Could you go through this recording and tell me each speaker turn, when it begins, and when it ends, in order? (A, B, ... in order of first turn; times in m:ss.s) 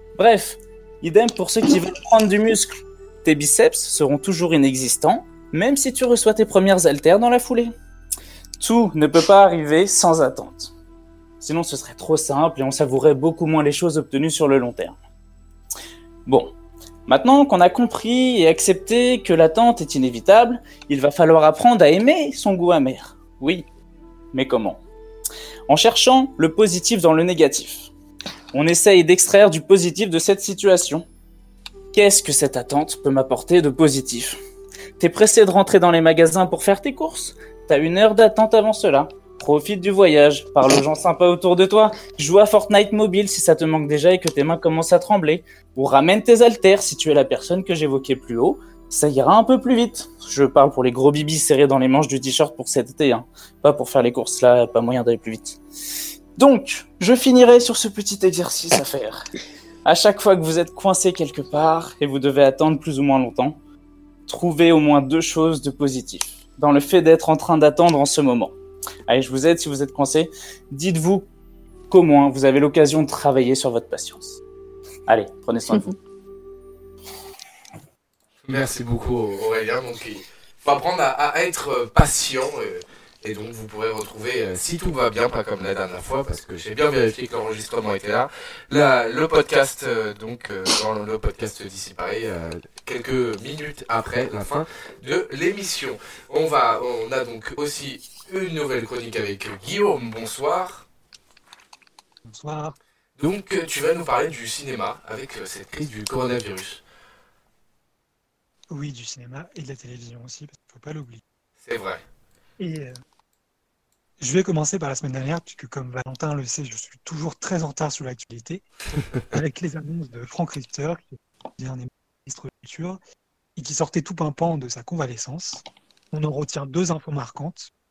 0:00.2-0:07.7 A
0:08.6-0:10.7 A
0:11.4-0:15.0 A
0:16.3-0:16.5 A
0:17.1-0:23.7 A
0:24.3-0:24.8 A
0:25.7-0:27.9 A
0:28.5-0:31.1 A
0:31.9-0:34.4 A
0:35.0-0:55.6 A
0:56.4-0:59.3 A
0:59.8-1:03.6 A
1:04.3-1:08.6 A
1:09.1-1:11.3 A
1:11.9-1:14.4 A
1:15.1-1:15.9 A
1:18.5-1:40.8 B
1:42.3-1:42.8 C
1:43.2-1:46.8 B
1:48.7-1:51.2 C
1:51.7-1:52.0 B
1:52.6-1:53.0 C
1:54.2-1:58.6 C
1:59.3-2:03.0 C
2:03.6-2:07.7 C